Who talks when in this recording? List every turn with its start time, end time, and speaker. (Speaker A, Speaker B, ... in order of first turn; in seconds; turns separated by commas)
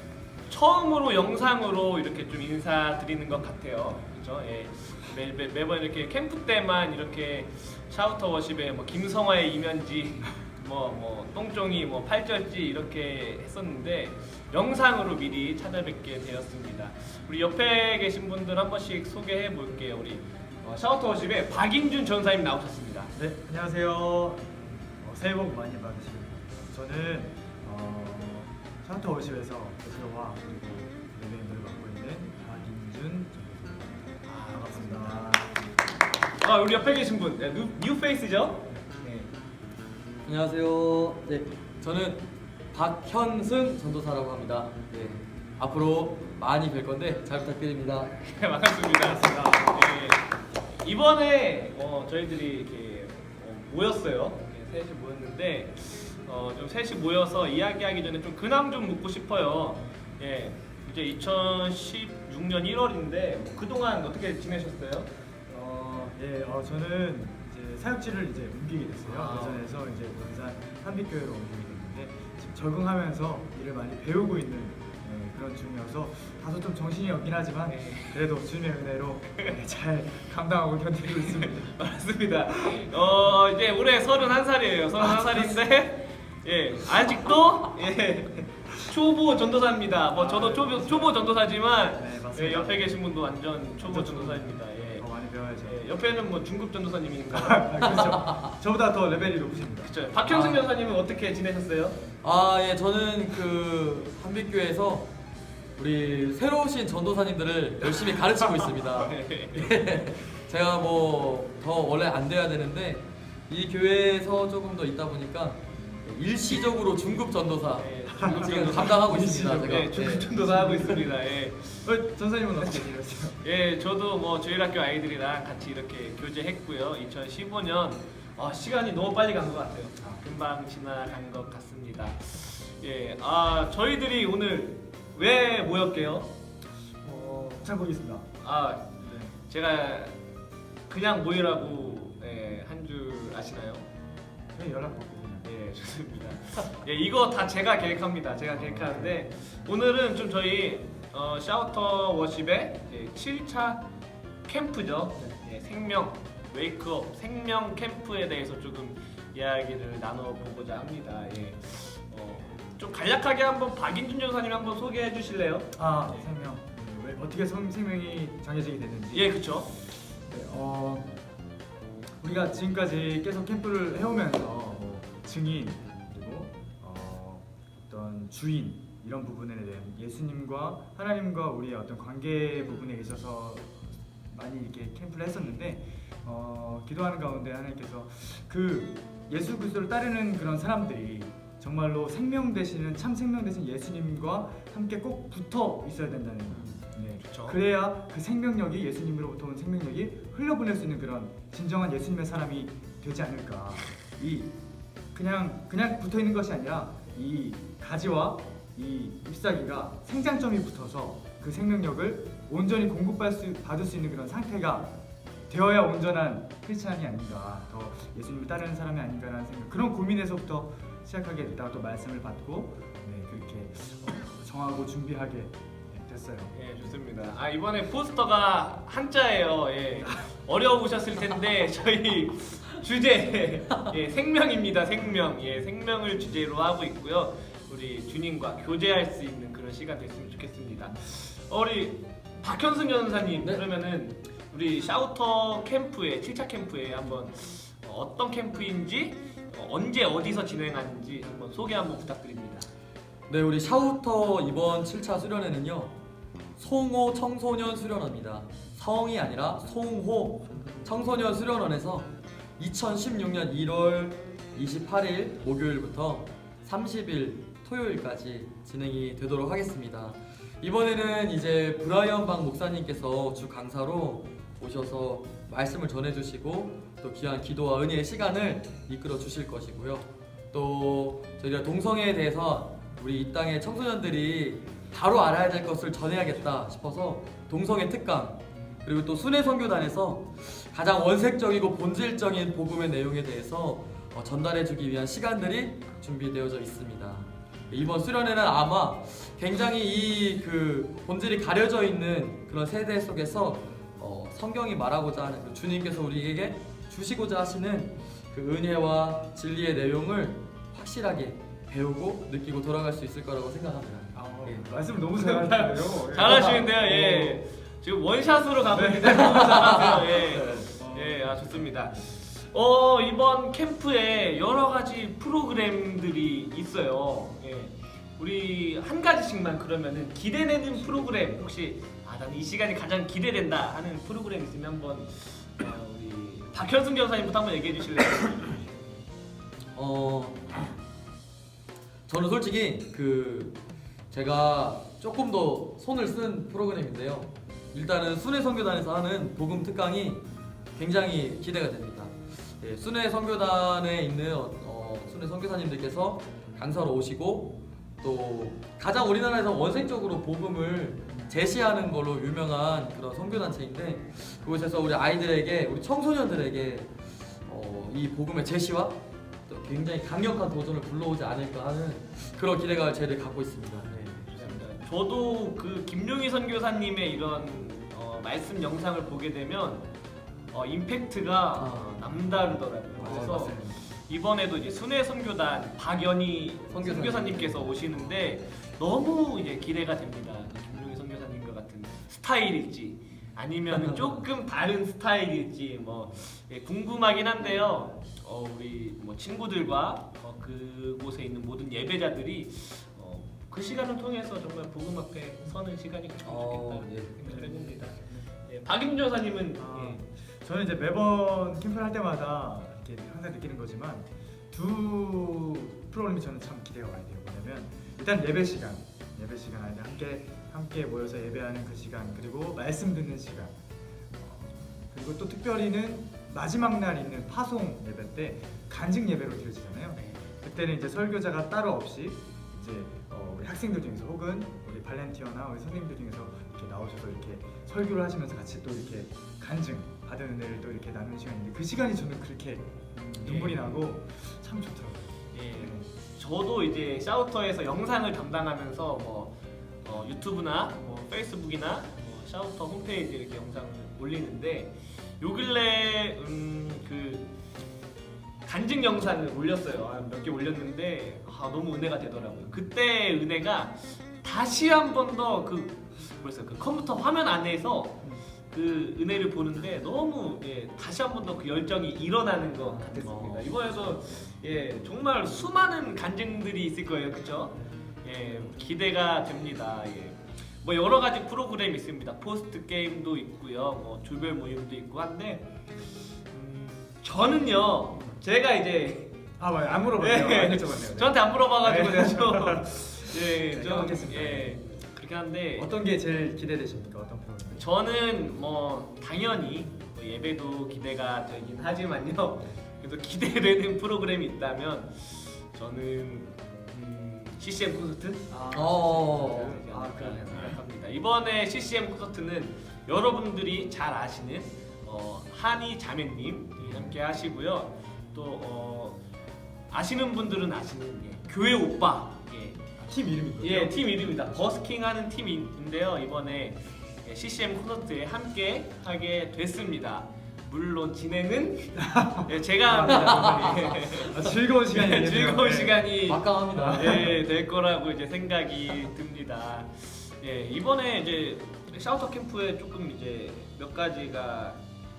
Speaker A: 0.5-23.1, Speaker B: 23.1-35.5, Speaker A: 34.2-35.4, Speaker A: 36.4-39.3, Speaker C: 40.2-48.1, Speaker A: 48.0-66.0, Speaker B: 49.0-49.8, Speaker B: 66.0-81.8, Speaker A: 69.0-69.7, Speaker A: 77.7-78.3, Speaker A: 81.0-95.0, Speaker B: 82.5-82.9, Speaker B: 85.0-85.6, Speaker B: 90.1-91.3, Speaker B: 91.9-93.0, Speaker B: 93.8-95.8, Speaker A: 95.6-98.2, Speaker B: 97.3-99.9, Speaker C: 97.8-98.5, Speaker A: 99.8-102.0, Speaker C: 100.2-100.7, Speaker C: 102.2-105.1, Speaker C: 105.8-120.2, Speaker A: 108.8-109.8, Speaker A: 117.7-121.8, Speaker B: 118.1-121.0, Speaker B: 121.8-123.4, Speaker A: 122.6-136.3, Speaker B: 137.0-138.3, Speaker A: 138.4-140.1, Speaker B: 139.0-139.3, Speaker A: 140.9-143.8, Speaker B: 144.5-145.5, Speaker A: 145.4-153.8, Speaker B: 148.6-149.1, Speaker A: 154.4-166.3, Speaker B: 165.8-169.4, Speaker A: 169.1-169.7, Speaker B: 170.2-171.1, Speaker B: 172.2-204.5, Speaker A: 196.5-197.6, Speaker B: 205.1-214.9, Speaker B: 215.5-226.9, Speaker A: 226.5-252.7, Speaker C: 253.3-255.9, Speaker C: 256.6-314.7, Speaker B: 314.1-317.4, Speaker A: 315.1-338.6, Speaker B: 318.7-319.6, Speaker C: 319.1-320.6, Speaker B: 320.6-321.7, Speaker B: 330.8-331.4, Speaker C: 339.7-340.7, Speaker C: 342.1-343.6, Speaker C: 344.1-350.2, Speaker C: 350.7-366.9, Speaker C: 367.4-374.5, Speaker A: 374.3-379.9, Speaker A: 380.5-410.0, Speaker C: 381.6-382.0, Speaker B: 382.9-383.8, Speaker C: 383.0-383.6, Speaker C: 386.7-387.9, Speaker C: 393.7-394.2, Speaker C: 406.2-407.1, Speaker B: 407.2-408.2, Speaker B: 409.5-423.5, Speaker B: 424.2-445.9, Speaker A: 429.9-430.2, Speaker A: 443.2-443.9, Speaker A: 445.3-457.3, Speaker A: 458.4-489.1, Speaker B: 472.6-473.0, Speaker C: 473.0-473.7, Speaker B: 489.4-494.6, Speaker A: 489.9-495.7, Speaker B: 495.6-497.6, Speaker A: 497.6-508.3, Speaker B: 508.3-510.6, Speaker C: 508.5-509.6, Speaker A: 509.3-519.0, Speaker B: 516.6-517.0, Speaker A: 519.7-522.6, Speaker B: 522.8-523.8, Speaker A: 523.4-544.6, Speaker B: 531.7-533.4, Speaker C: 532.8-533.8, Speaker B: 533.9-535.8, Speaker C: 535.8-537.1, Speaker B: 536.5-537.2